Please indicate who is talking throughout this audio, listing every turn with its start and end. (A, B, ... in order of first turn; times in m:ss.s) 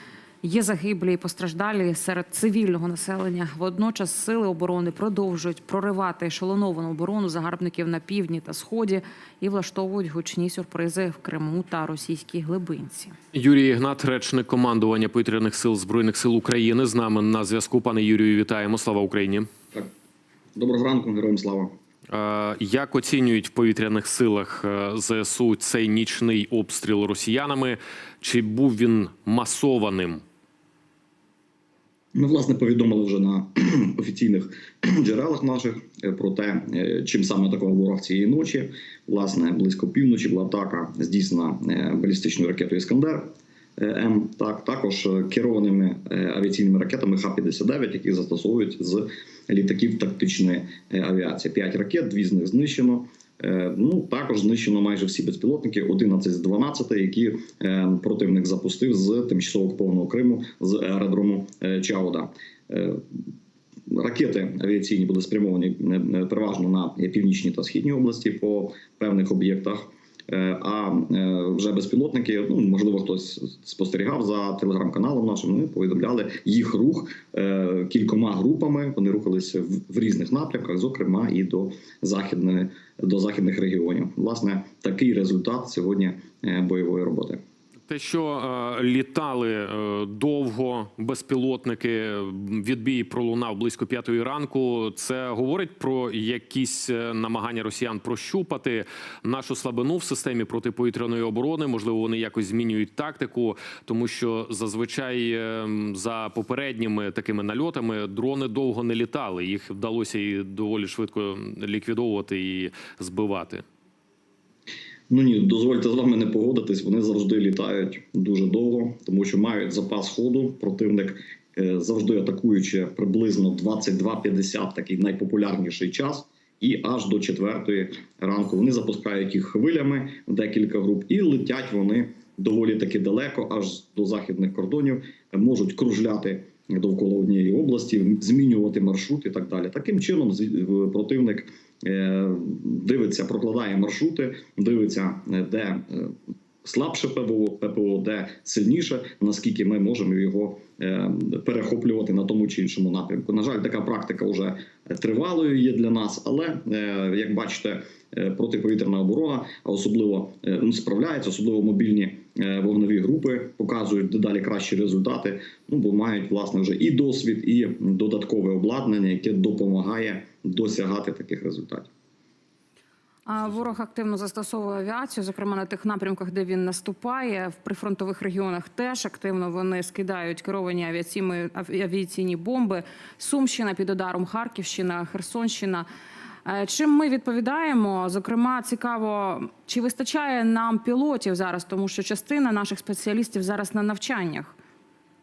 0:00.4-0:13.2 A
0:13.3-0:19.5 B
0:20.6-0:21.7 C
0:22.1-0:30.2 B
0:32.1-1:03.2 C
1:03.9-1:27.4 C
1:27.9-1:53.6 B
1:55.1-2:51.9 C
2:53.2-3:05.8 A
3:06.4-3:14.6 A